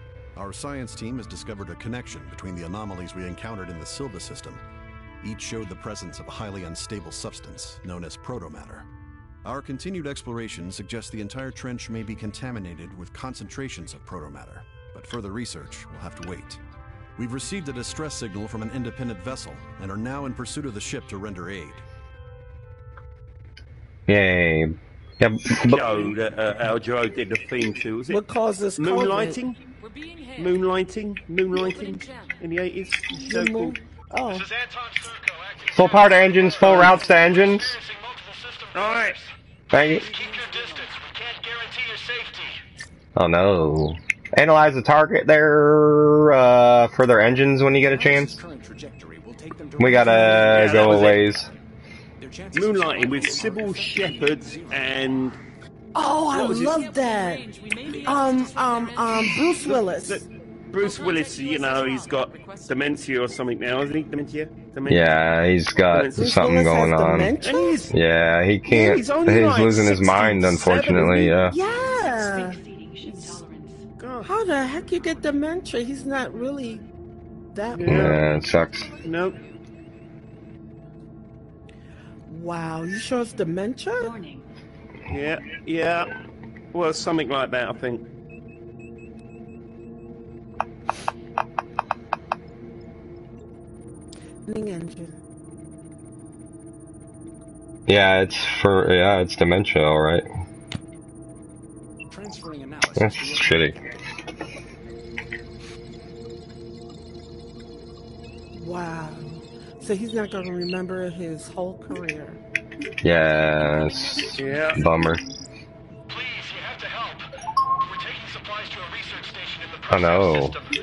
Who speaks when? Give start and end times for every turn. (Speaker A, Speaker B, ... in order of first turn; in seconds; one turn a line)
Speaker A: 0.3-4.6
Speaker A: 5.2-8.9
Speaker A: 9.4-16.6
Speaker A: 17.2-21.8
Speaker B: 24.1-26.1
Speaker C: 25.6-28.2
Speaker D: 28.1-29.4
Speaker C: 28.8-29.6
Speaker E: 29.8-30.6
Speaker C: 30.4-33.8
Speaker E: 31.5-32.4
Speaker D: 33.1-34.5
Speaker F: 34.6-35.7
Speaker B: 35.7-37.8
Speaker C: 36.6-37.0
Speaker F: 37.8-38.7
Speaker C: 38.7-39.2
Speaker B: 39.7-40.1
Speaker G: 39.9-41.1
Speaker F: 40.4-42.5
Speaker B: 43.1-48.4
Speaker G: 47.8-51.6
Speaker B: 49.8-51.5
Speaker C: 50.5-51.2
Speaker G: 52.2-55.2
Speaker C: 52.5-55.4
Speaker D: 55.9-60.2
Speaker C: 56.3-56.7
Speaker E: 56.7-59.4
Speaker C: 59.2-65.1
Speaker E: 60.8-62.8
Speaker B: 64.9-67.3
Speaker C: 65.9-66.2
Speaker D: 66.1-67.8
Speaker C: 67.4-67.9
Speaker B: 67.9-71.5
Speaker C: 68.7-71.5
Speaker D: 71.5-73.3
Speaker E: 71.5-73.8
Speaker C: 74.0-74.3
Speaker D: 74.2-76.8
Speaker E: 74.6-75.3
Speaker D: 77.5-78.2
Speaker C: 77.7-78.2
Speaker B: 77.8-78.9
Speaker E: 78.2-79.6
Speaker C: 79.0-79.4
Speaker D: 82.3-84.1
Speaker E: 84.0-84.5
Speaker C: 85.1-86.1
Speaker C: 86.7-88.0
Speaker D: 94.4-95.2
Speaker B: 97.9-100.2
Speaker G: 102.1-104.0
Speaker B: 103.0-103.7
Speaker D: 108.5-112.4
Speaker B: 113.0-115.2
Speaker E: 113.5-114.8
Speaker C: 114.3-114.8
Speaker F: 116.1-117.2
Speaker F: 117.8-120.0
Speaker B: 119.9-120.6